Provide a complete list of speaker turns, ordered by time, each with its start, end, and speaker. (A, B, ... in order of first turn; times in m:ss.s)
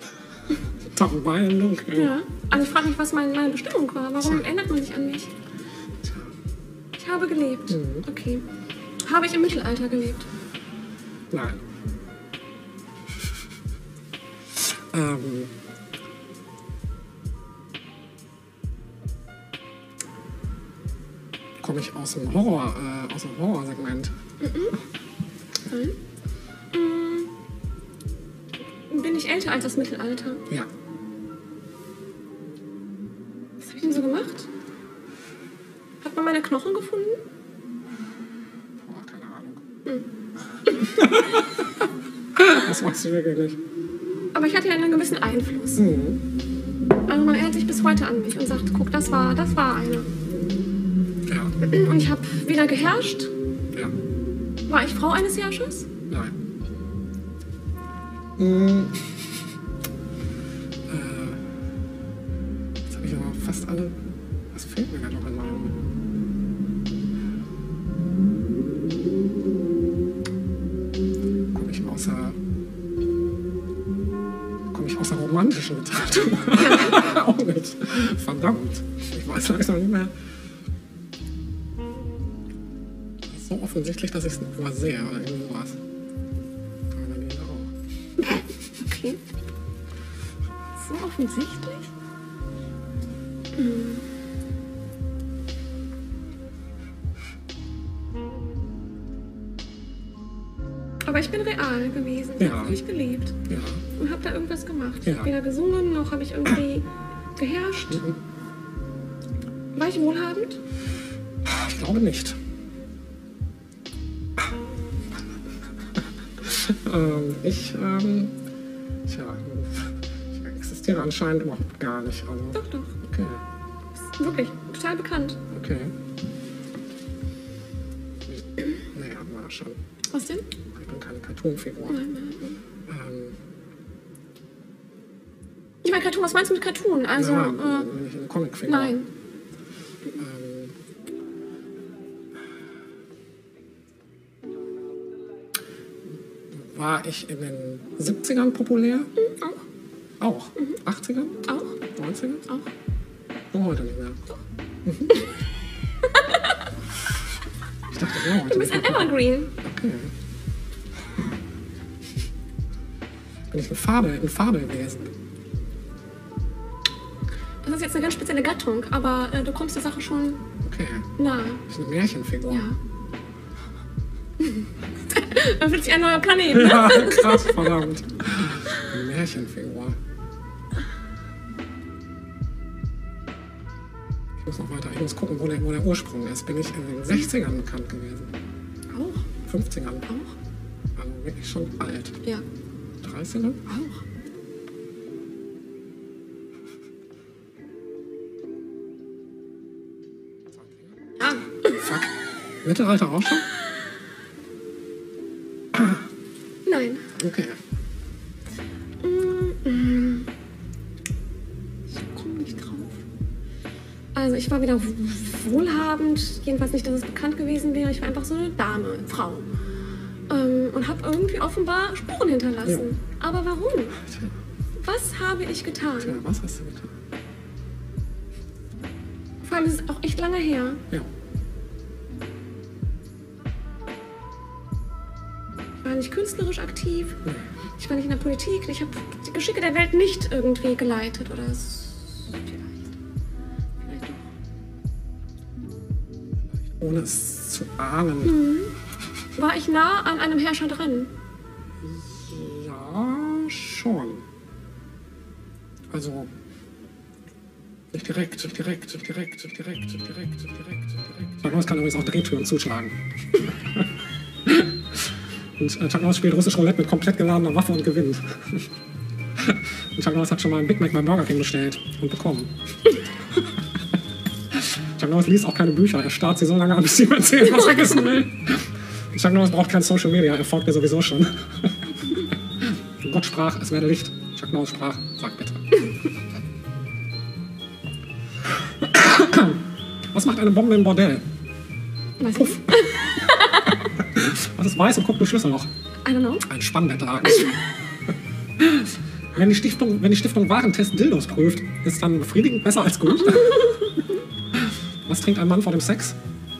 0:00.9-0:02.2 A
0:01.9-0:05.3 B
0:04.2-0:04.4 A
0:06.0-0:06.3 A
0:07.0-0:08.4 B
0:07.7-0:08.1 A
0:09.0-0:10.2 B
0:11.3-0:11.6 A
0:14.6-0:15.5 A
0:21.6-0:24.1 A
0:24.4-0:24.7 B
0:25.7-0:25.9 B
0:26.7-0:27.3 B
0:28.9-0:30.4 B
0:33.6-0:34.5 B
0:36.0-0:37.2 B
0:38.8-0:39.6 A
0:40.9-0:41.8 A
0:42.4-0:43.6 A
0:44.3-0:45.8 B
0:45.8-0:46.2 A
0:47.1-0:50.1 B
0:51.2-0:51.6 A
0:51.6-0:53.3 B
0:54.7-0:55.8 B
0:56.1-0:56.3 A
0:58.4-0:59.2 A
1:00.9-1:01.4 A
1:02.9-1:04.0 A
1:04.5-1:05.8 A
1:11.5-1:12.4 A
1:14.7-1:20.1 A
1:16.5-1:17.2 B
1:23.3-1:25.8 A
1:26.9-1:27.7 A
1:28.2-1:29.2 B
1:30.8-1:31.9 B
1:33.5-1:34.0 B
1:41.0-1:43.4 B
1:42.4-1:42.8 A
1:43.5-1:43.8 A
1:44.0-1:48.0 B
1:45.0-1:45.3 A
1:47.9-1:48.2 A
1:49.7-1:50.6 B
1:51.4-1:52.4 A
1:56.4-1:58.3 A
1:59.1-2:03.4 A
2:02.5-2:02.9 B
2:04.2-2:05.4 B
2:05.5-2:05.9 A
2:08.3-2:09.8 A
2:10.1-2:10.4 B
2:10.7-2:12.0 A
2:11.9-2:12.6 B
2:12.9-2:13.4 A
2:15.8-2:17.9 B
2:17.2-2:19.0 A
2:18.6-2:19.1 B
2:20.2-2:20.7 A
2:26.5-2:29.1 A
2:29.2-2:29.6 B
2:30.2-2:32.4 A
2:31.5-2:31.8 B
2:33.5-2:34.2 A
2:34.8-2:35.2 A
2:37.9-2:40.1 A
2:38.5-2:39.5 B
2:43.5-2:45.1 A
2:47.6-2:50.4 B
2:50.6-2:51.1 A
2:51.2-2:51.6 B
2:51.7-2:52.7 A
2:52.4-2:52.8 B
2:55.1-2:57.9 B
2:56.5-3:00.0 A
3:04.4-3:08.3 A
3:08.9-3:09.2 B
3:09.4-3:10.1 A
3:10.1-3:10.3 B
3:11.0-3:12.2 A
3:13.0-3:13.6 A
3:13.7-3:14.0 B
3:20.5-3:20.9 A
3:21.7-3:22.1 A
3:22.6-3:23.4 A
3:25.7-3:26.0 A
3:26.6-3:27.0 B
3:27.1-3:27.6 A
3:29.0-3:30.3 B
3:31.9-3:33.0 B
3:34.1-3:39.4 B
3:40.3-3:44.0 B
3:44.0-3:44.3 A
3:44.8-3:46.2 B
3:46.0-3:46.9 A
3:49.4-3:50.8 B
3:55.8-3:57.2 B
3:57.2-3:57.5 A
3:57.8-4:02.9 B
4:03.8-4:04.2 B
4:06.5-4:08.4 A
4:08.2-4:08.7 B
4:09.4-4:11.1 B
4:11.8-4:14.2 A
4:15.9-4:16.3 A
4:17.9-4:22.9 A
4:25.6-4:28.6 A
4:29.4-4:32.5 A
4:35.0-4:41.7 A
4:37.6-4:37.9 B
4:42.6-4:45.6 A
4:48.8-4:51.2 A
4:52.2-4:53.7 B
4:52.3-4:52.6 A
4:54.2-4:55.7 A
4:56.0-4:56.4 B
4:56.4-4:57.6 A
4:58.6-5:03.8 A
5:03.3-5:03.7 B
5:05.0-5:06.2 A